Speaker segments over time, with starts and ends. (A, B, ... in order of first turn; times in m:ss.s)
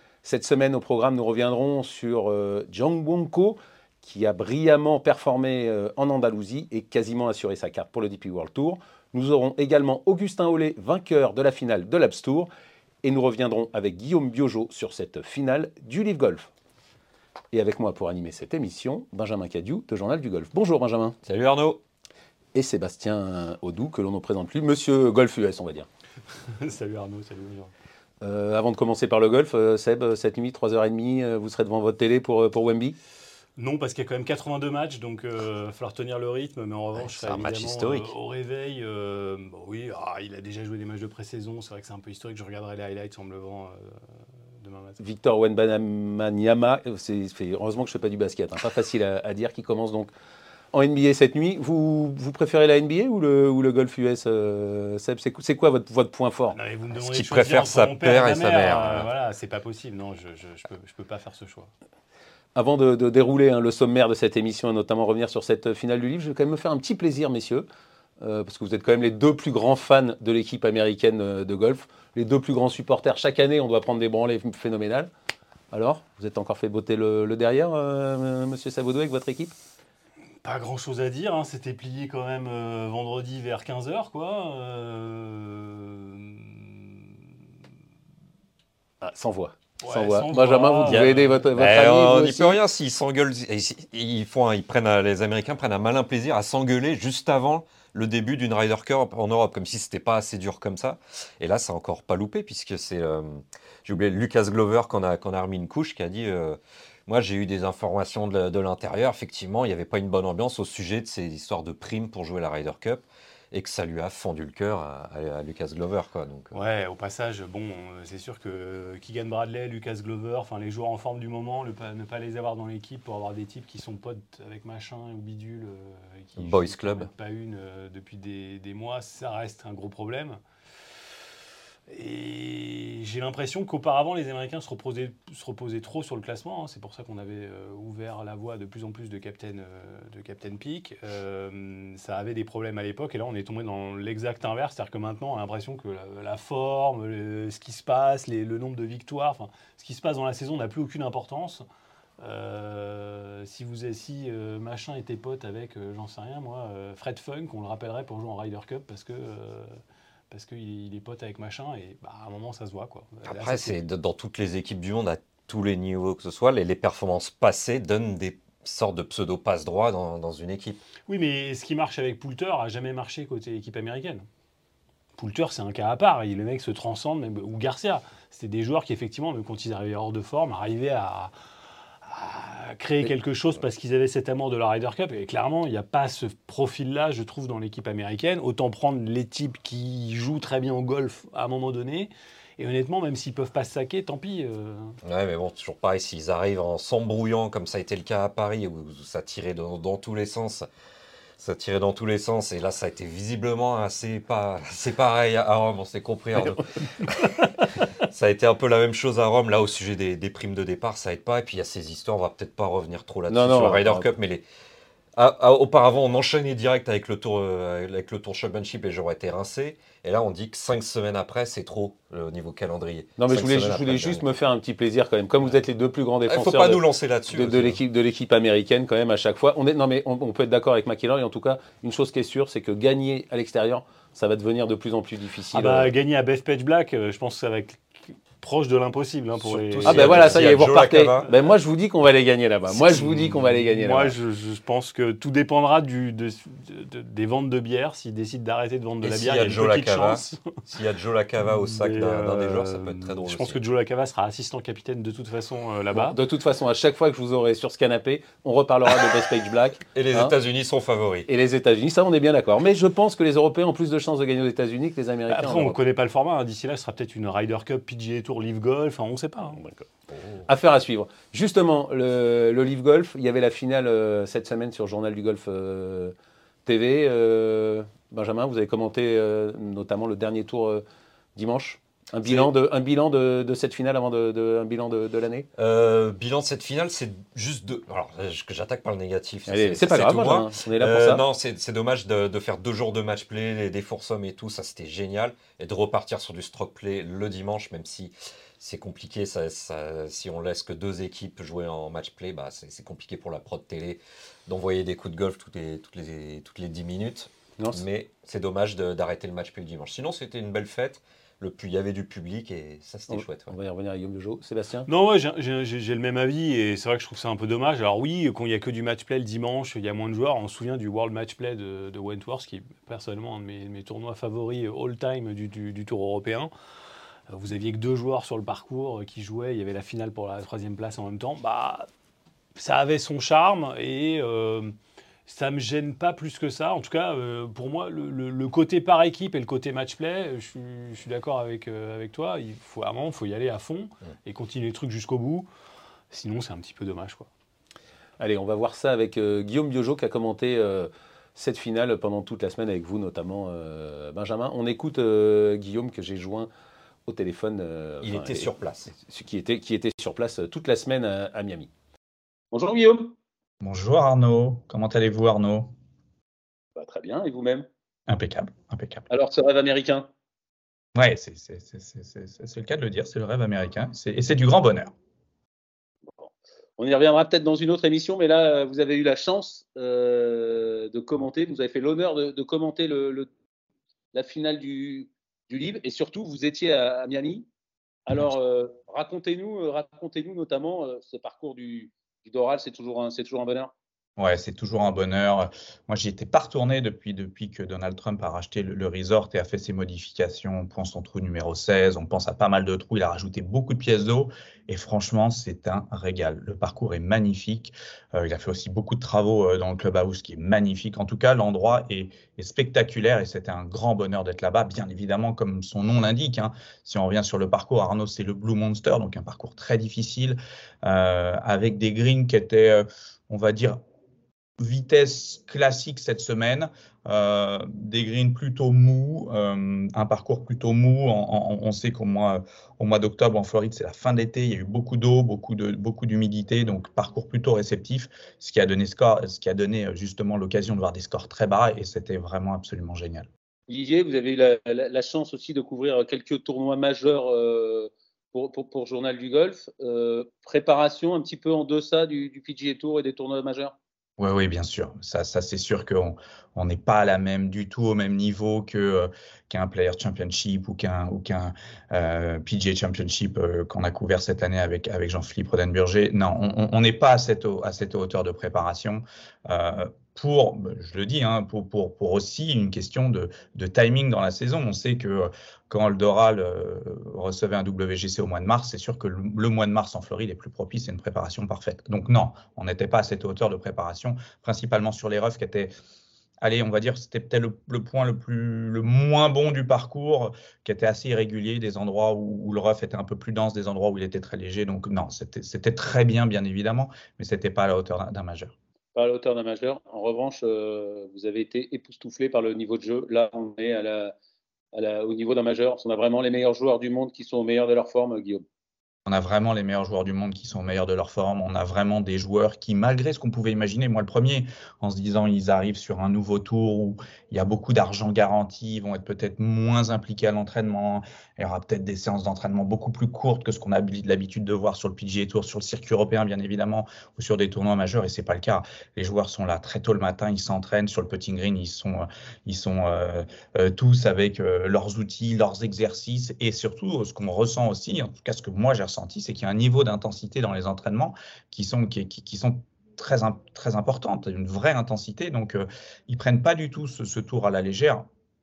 0:00.2-0:12.5 A
0:13.0-0:16.5 A
0:17.5-0:21.2 A
0:21.2-0:21.8 B
0:22.5-0:25.9 A
0:26.5-0:27.7 C
0:28.2-0:33.0 A
0:33.6-0:44.0 C
0:37.0-0:38.1 B
0:44.6-0:45.0 C
0:45.0-0:50.1 A
0:50.7-0:56.6 A
0:56.5-1:01.7 C
0:56.9-0:59.1 B
1:02.5-1:07.7 A
1:08.2-1:15.1 A
1:15.7-1:19.5 A
1:20.4-1:26.9 C
1:29.0-1:32.6 A
1:29.8-1:31.4 C
1:30.9-1:56.5 B
1:56.5-2:10.4 C
2:06.4-2:07.1 B
2:11.9-2:31.6 C
2:32.2-2:39.8 C
2:40.3-2:43.8 C
2:43.3-2:50.8 B
2:51.1-2:54.2 C
2:55.2-3:01.3 C
3:02.0-3:15.0 C
3:15.0-3:20.7 B
3:21.4-3:34.4 B
3:33.3-3:34.1 A
3:35.2-3:44.2 B
3:43.2-3:55.9 A
3:46.3-3:47.8 B
3:55.5-3:57.8 C
3:58.4-4:00.7 C
3:59.4-4:01.3 B
3:59.8-4:04.2 A
4:02.7-4:10.6 C
4:09.0-4:13.6 B
4:11.4-4:16.2 C
4:15.9-4:20.3 A
4:19.9-4:21.3 B
4:21.3-4:25.8 A
4:25.3-4:29.6 C
4:29.6-4:29.8 A
4:30.1-4:30.4 B
4:30.4-4:36.1 A
4:36.6-4:40.8 A
4:41.4-4:45.5 A
4:42.2-4:42.5 B
4:45.6-5:13.5 B
4:49.5-4:51.2 A
5:07.6-5:07.8 A
5:13.1-5:14.9 A
5:14.9-5:26.5 C
5:27.3-5:31.9 C
5:32.6-5:34.7 C
5:35.3-5:45.4 C
5:46.1-5:47.3 C
5:48.2-5:56.5 A
5:57.1-6:01.7 A
5:58.0-5:58.9 B
6:02.5-6:03.2 D
6:03.6-6:05.7 E
6:06.8-6:07.7 D
6:08.1-6:09.1 E
6:09.1-6:10.1 D
6:10.9-6:14.9 E
6:16.1-6:23.3 D
6:24.1-6:27.5 D
6:28.1-6:33.7 D
6:34.2-7:03.8 E
7:04.6-7:23.3 E
7:23.7-7:33.8 D
7:34.2-8:05.7 E
8:06.4-8:18.5 E
8:18.9-8:24.1 D
8:24.7-8:28.4 D
8:29.0-9:08.1 E